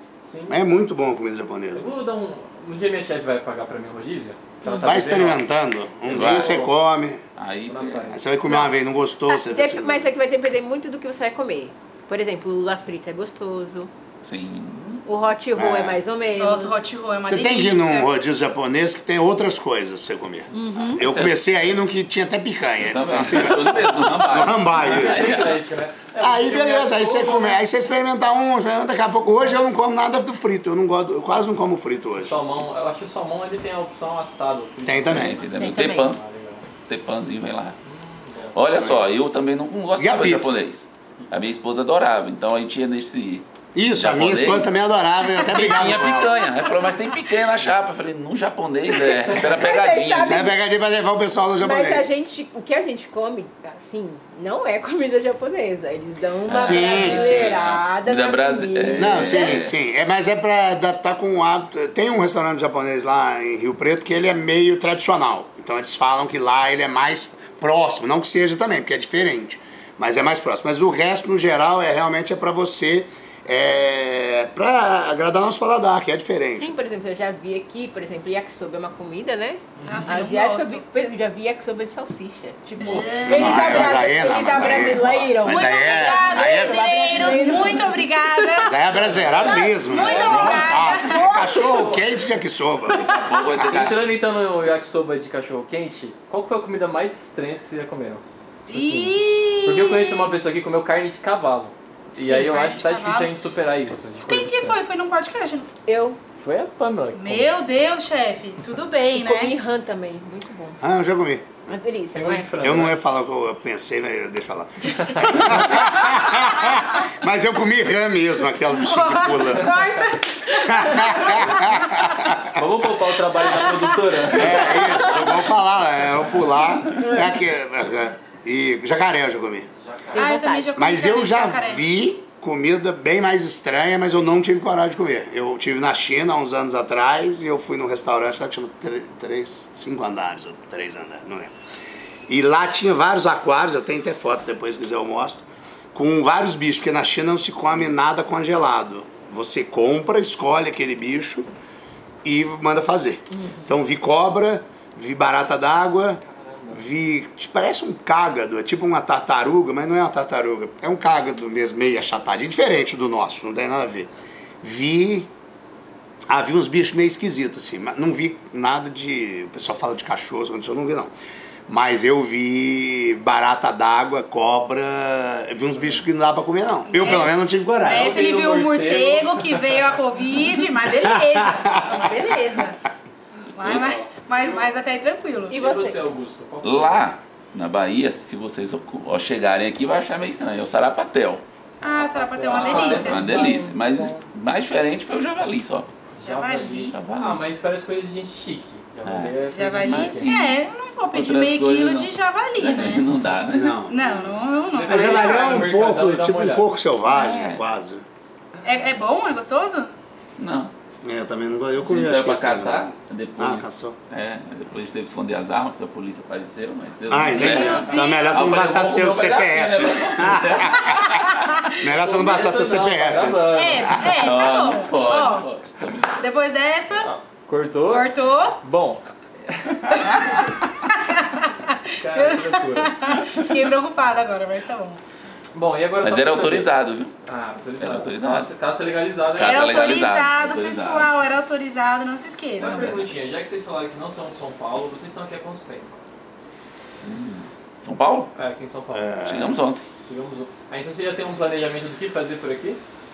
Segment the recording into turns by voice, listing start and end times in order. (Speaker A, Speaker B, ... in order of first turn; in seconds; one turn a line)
Speaker A: 0.2-0.7
Speaker B: 0.5-1.9
Speaker A: 1.7-5.5
Speaker C: 4.6-5.0
Speaker B: 4.8-7.2
Speaker A: 6.0-6.7
Speaker D: 6.1-6.6
Speaker D: 7.3-8.1
Speaker A: 7.7-8.2
Speaker B: 8.1-10.1
Speaker C: 8.5-8.7
Speaker C: 9.3-13.9
Speaker D: 14.2-14.8
Speaker A: 14.7-15.0
Speaker C: 15.0-16.9
Speaker B: 15.5-16.0
Speaker E: 16.3-18.1
Speaker B: 17.2-25.4
Speaker C: 20.5-21.0
Speaker D: 21.0-21.6
Speaker D: 22.8-25.6
Speaker A: 23.1-23.6
Speaker A: 24.7-27.6
Speaker B: 26.2-32.4
Speaker A: 32.2-35.4
Speaker B: 34.9-35.4
Speaker D: 35.1-36.2
Speaker C: 35.5-36.1
Speaker A: 36.0-36.6
Speaker D: 36.9-37.8
Speaker A: 37.8-39.0
Speaker D: 38.5-44.7
Speaker B: 40.0-40.6
Speaker B: 43.7-46.4
Speaker D: 45.4-50.5
Speaker C: 49.0-50.6
Speaker B: 50.2-52.1
Speaker C: 51.5-59.7
Speaker D: 56.5-59.7
Speaker B: 56.5-57.7
Speaker B: 58.9-76.7
Speaker C: 76.6-88.6
Speaker A: 79.8-80.3
Speaker E: 79.9-80.8
Speaker A: 82.8-83.1
Speaker E: 83.0-84.7
Speaker B: 83.2-86.9
Speaker E: 85.4-88.8
Speaker B: 88.5-93.1
Speaker A: 88.8-90.8
Speaker E: 89.5-91.8
Speaker D: 90.2-90.5
Speaker C: 90.4-91.3
Speaker A: 91.4-92.0
Speaker D: 92.9-94.2
Speaker A: 93.7-104.8
Speaker E: 98.7-100.3
Speaker C: 102.2-102.5
Speaker E: 102.5-103.3
Speaker E: 104.2-105.7
Speaker C: 105.8-106.2
Speaker A: 106.4-107.5
Speaker E: 107.1-109.5
Speaker C: 109.1-110.8
Speaker B: 110.8-111.7
Speaker C: 111.7-112.5
Speaker A: 112.1-113.0
Speaker B: 112.6-119.8
Speaker E: 118.8-121.5
Speaker B: 120.6-122.5
Speaker A: 122.5-125.0
Speaker B: 124.3-129.7
Speaker C: 126.8-127.3
Speaker A: 129.8-130.3
Speaker C: 130.1-130.8
Speaker E: 130.2-131.8
Speaker B: 130.7-141.5
Speaker B: 142.3-151.5
Speaker B: 152.2-164.1
Speaker C: 153.3-153.7
Speaker A: 156.2-156.8
Speaker B: 164.6-165.3
Speaker B: 166.3-171.1
Speaker B: 171.7-178.2
Speaker E: 176.9-182.8
Speaker A: 177.8-179.8
Speaker B: 180.9-182.3
Speaker E: 183.5-185.6
Speaker D: 183.6-184.0
Speaker C: 185.5-186.0
Speaker A: 185.5-187.0
Speaker D: 186.6-191.4
Speaker A: 191.7-194.2
Speaker E: 191.8-193.3
Speaker D: 192.5-195.9
Speaker A: 196.2-200.3
Speaker E: 196.2-197.0
Speaker D: 196.9-197.4
Speaker D: 199.0-200.6
Speaker E: 199.5-203.0
Speaker D: 201.1-203.8
Speaker B: 203.5-208.0
Speaker E: 203.8-205.6
Speaker A: 204.7-206.7
Speaker E: 207.1-207.5
Speaker D: 207.2-207.6
Speaker E: 208.6-209.9
Speaker D: 210.4-210.7
Speaker B: 211.0-213.9
Speaker D: 211.8-221.3
Speaker B: 217.1-221.1
Speaker A: 217.4-217.9
Speaker E: 217.5-218.4
Speaker B: 221.7-224.2
Speaker A: 221.9-223.9
Speaker E: 223.5-225.5
Speaker D: 224.2-226.1
Speaker E: 226.2-227.1
Speaker A: 226.9-230.4
Speaker E: 227.9-228.6
Speaker E: 230.8-235.0
Speaker A: 231.9-233.1
Speaker A: 235.5-236.7
Speaker D: 236.0-237.1
Speaker A: 237.2-239.6
Speaker D: 237.8-238.5
Speaker D: 239.4-241.1
Speaker E: 239.4-242.9
Speaker A: 242.6-246.0
Speaker D: 242.6-243.1
Speaker D: 247.0-248.3
Speaker A: 248.3-249.2
Speaker B: 248.9-249.6
Speaker D: 249.2-249.8
Speaker A: 250.0-252.8